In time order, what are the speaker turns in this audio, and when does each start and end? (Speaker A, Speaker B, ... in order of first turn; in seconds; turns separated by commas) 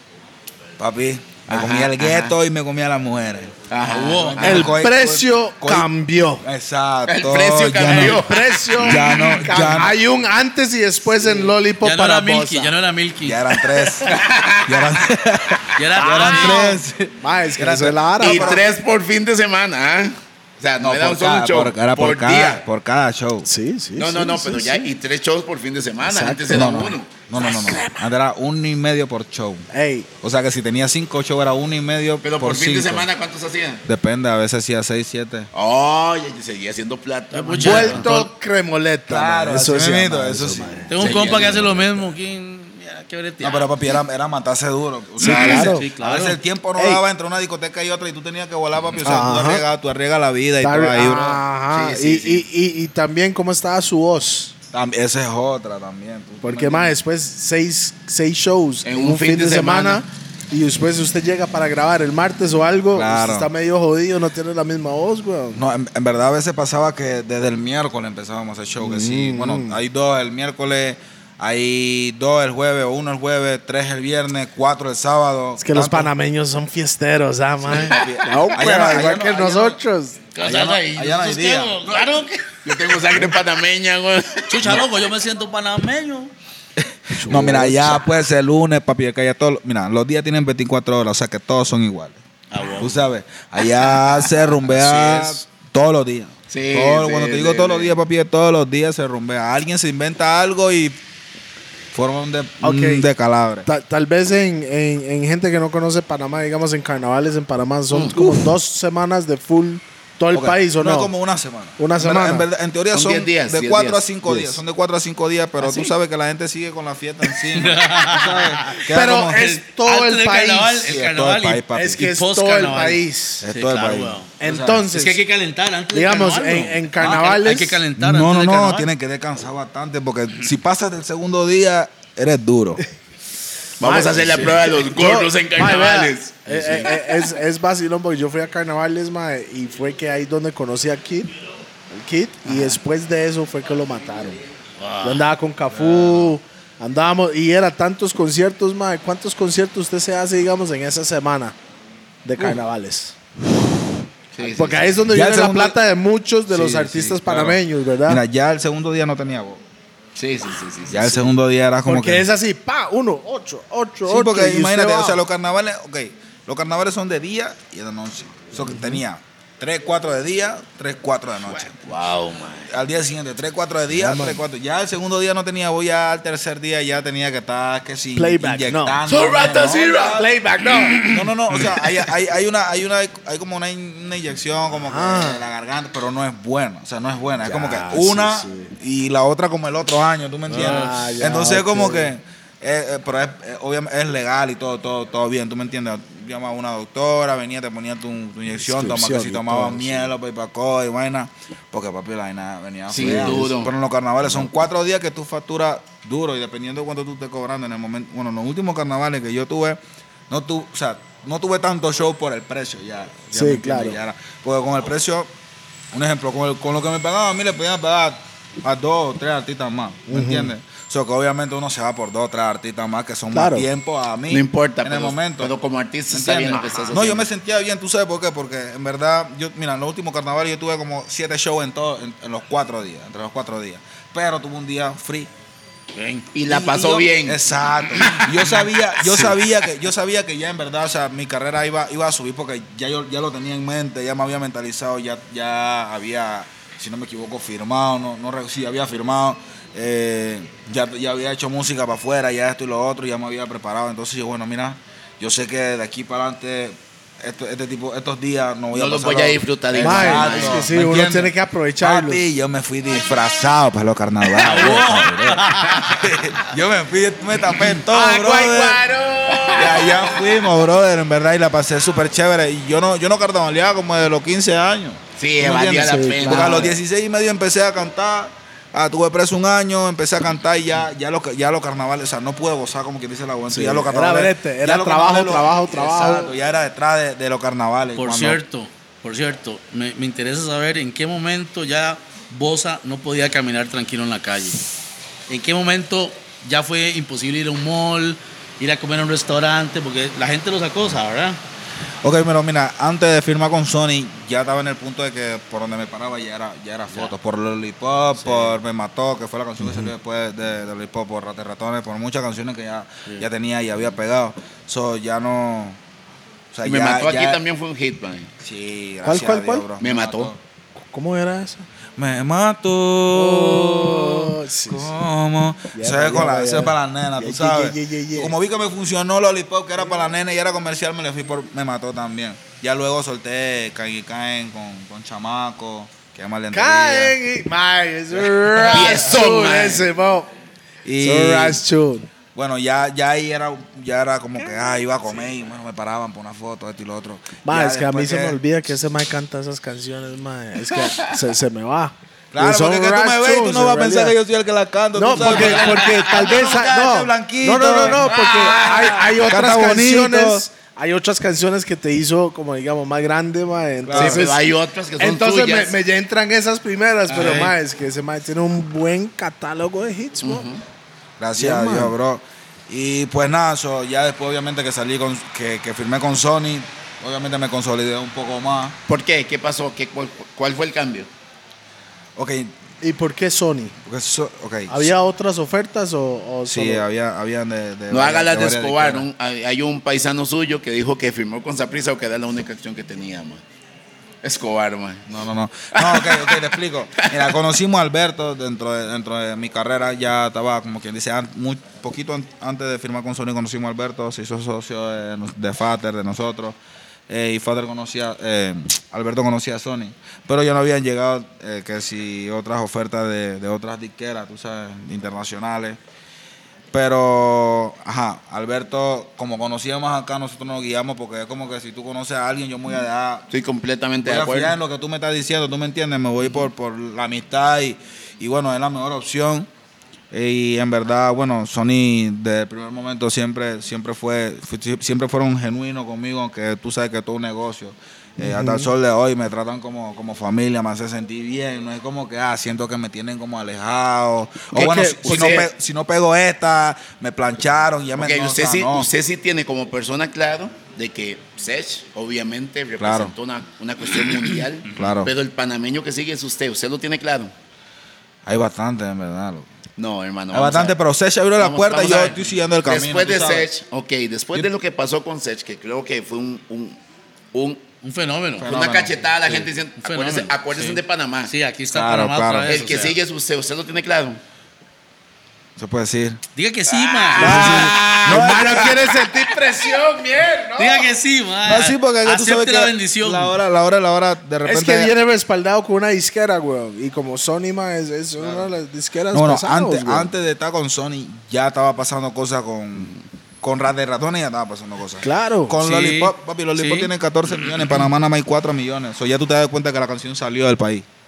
Speaker A: 0.8-5.9, Speaker B: 1.5-2.3, Speaker B: 3.7-4.7, Speaker C: 3.8-4.7, Speaker D: 4.4-6.4, Speaker A: 6.4-9.9, Speaker B: 7.0-9.0, Speaker D: 7.8-12.7, Speaker C: 11.8-13.5, Speaker A: 13.2-18.6, Speaker B: 14.1-14.9, Speaker C: 15.8-16.8, Speaker D: 16.0-18.6, Speaker B: 18.2-22.6, Speaker A: 20.8-23.5, Speaker D: 23.4-24.9, Speaker B: 24.0-27.1, Speaker D: 26.0-27.6, Speaker A: 26.5-29.7, Speaker D: 29.7-30.1, Speaker A: 30.2-33.1, Speaker B: 32.2-33.8, Speaker A: 33.8-35.5, Speaker B: 35.5-38.0, Speaker C: 37.3-38.3, Speaker D: 37.5-41.0, Speaker A: 39.1-42.1, Speaker C: 40.9-43.7, Speaker B: 41.0-41.5, Speaker A: 43.4-51.4, Speaker C: 45.2-46.4, Speaker D: 45.2-45.9, Speaker D: 46.8-47.0, Speaker D: 49.0-49.6, Speaker D: 50.6-54.5, Speaker B: 51.7-52.5, Speaker A: 54.7-57.0, Speaker D: 56.4-65.6, Speaker B: 58.8-60.0, Speaker A: 62.9-63.5, Speaker A: 65.5-76.1, Speaker D: 68.8-69.8, Speaker D: 75.6-80.2, Speaker A: 77.6-79.8, Speaker C: 80.3-83.0, Speaker A: 80.4-81.9, Speaker B: 82.6-84.8, Speaker C: 84.5-86.3, Speaker A: 86.8-92.2, Speaker D: 87.1-88.1, Speaker C: 92.5-93.0, Speaker A: 92.8-101.0, Speaker B: 94.9-95.3, Speaker B: 96.5-98.0, Speaker A: 101.9-103.7, Speaker D: 102.6-103.1, Speaker D: 103.7-111.1, Speaker B: 107.9-108.2, Speaker A: 108.2-108.4, Speaker A: 110.3-119.5, Speaker D: 111.8-112.5, Speaker B: 112.9-114.0, Speaker D: 114.2-114.6, Speaker B: 115.6-115.9, Speaker C: 117.5-124.3, Speaker D: 118.8-120.9, Speaker A: 120.8-122.1, Speaker D: 121.7-123.5, Speaker A: 123.4-124.8, Speaker D: 124.4-125.2, Speaker C: 124.8-128.9, Speaker D: 125.9-127.8, Speaker A: 128.0-132.8, Speaker B: 133.8-136.9, Speaker D: 133.8-141.3, Speaker A: 134.1-134.6, Speaker A: 136.5-136.9, Speaker D: 141.9-144.4, Speaker B: 142.4-142.8, Speaker C: 144.8-145.2, Speaker D: 145.0-151.6, Speaker A: 145.7-146.3, Speaker D: 152.2-153.2, Speaker B: 154.3-154.9, Speaker D: 154.4-158.2, Speaker A: 155.1-155.8, Speaker A: 156.5-159.6, Speaker B: 160.2-161.3, Speaker A: 160.9-162.2, Speaker D: 161.8-165.2, Speaker A: 164.1-171.9, Speaker D: 168.5-169.0, Speaker B: 171.5-172.7, Speaker A: 172.7-180.3, Speaker D: 173.9-174.4, Speaker D: 178.1-179.0, Speaker B: 179.1-180.2, Speaker D: 180.1-181.0, Speaker A: 181.0-209.8, Speaker D: 184.8-185.4, Speaker D: 187.4-188.7, Speaker D: 190.5-192.1, Speaker C: 190.5-191.0, Speaker D: 198.6-200.1, Speaker B: 202.9-203.7, Speaker D: 203.0-203.5, Speaker A: 210.3-215.3, Speaker D: 213.3-214.0, Speaker A: 215.9-225.5, Speaker D: 220.1-220.5, Speaker D: 223.3-223.7, Speaker B: 224.3-227.2, Speaker A: 226.1-235.3, Speaker C: 235.9-236.2, Speaker B: 236.3-237.4, Speaker A: 236.4-268.8, Speaker B: 239.0-239.3, Speaker B: 258.7-260.7, Speaker D: 259.8-262.2, Speaker C: 264.3-266.1, Speaker D: 267.9-269.9, Speaker B: 269.2-270.3, Speaker A: 269.5-288.4, Speaker B: 275.2-276.7, Speaker D: 275.6-276.8, Speaker D: 283.5-286.3, Speaker C: 287.9-294.6, Speaker C: 295.3-301.4, Speaker A: 302.0-315.8, Speaker C: 308.2-308.5, Speaker A: 316.5-317.4, Speaker B: 316.6-318.3, Speaker A: 318.4-320.4, Speaker D: 319.0-319.7, Speaker B: 319.8-320.3, Speaker D: 320.8-321.6, Speaker A: 322.0-337.1, Speaker D: 323.1-324.9, Speaker D: 325.7-328.3, Speaker D: 336.5-340.3, Speaker B: 338.6-339.9, Speaker A: 340.8-341.6, Speaker D: 341.0-342.1, Speaker A: 342.3-348.4, Speaker D: 347.4-354.1, Speaker A: 352.3-358.1, Speaker D: 354.9-364.4, Speaker B: 355.5-355.9, Speaker B: 358.0-359.2, Speaker A: 359.2-360.4, Speaker A: 363.8-364.3, Speaker B: 363.9-365.7, Speaker D: 365.0-370.4, Speaker B: 367.1-367.5, Speaker A: 367.2-367.5, Speaker B: 370.2-370.6, Speaker A: 371.2-378.8, Speaker D: 371.4-371.9, Speaker B: 378.9-381.1, Speaker A: 382.1-382.5, Speaker D: 382.8-383.7, Speaker A: 383.8-384.9, Speaker D: 384.7-386.9, Speaker A: 386.4-389.1, Speaker B: 387.9-393.4, Speaker B: 394.2-395.2, Speaker A: 395.1-406.6, Speaker B: 395.7-397.4, Speaker A: 407.1-415.8, Speaker A: 416.7-423.3, Speaker B: 423.3-424.5, Speaker A: 424.0-429.5, Speaker A: 430.1-448.9, Speaker D: 438.2-438.7, Speaker D: 444.5-445.4, Speaker B: 444.6-445.5, Speaker B: 448.0-457.3, Speaker A: 452.8-453.1, Speaker A: 454.7-455.1, Speaker A: 458.2-459.5, Speaker B: 459.8-460.8, Speaker A: 460.3-463.5, Speaker B: 461.4-466.8, Speaker B: 467.3-467.6, Speaker C: 467.8-468.5, Speaker A: 468.4-469.0, Speaker B: 468.4-471.3, Speaker C: 469.2-473.0, Speaker A: 471.7-472.6, Speaker B: 472.5-474.2, Speaker A: 475.6-476.2, Speaker C: 476.3-477.8, Speaker B: 476.7-479.0, Speaker A: 477.2-478.8, Speaker D: 477.2-480.9, Speaker C: 480.6-483.3, Speaker A: 481.4-484.9, Speaker D: 484.4-490.1, Speaker A: 489.1-500.9, Speaker D: 495.0-495.6, Speaker C: 495.6-496.9, Speaker C: 497.4-497.7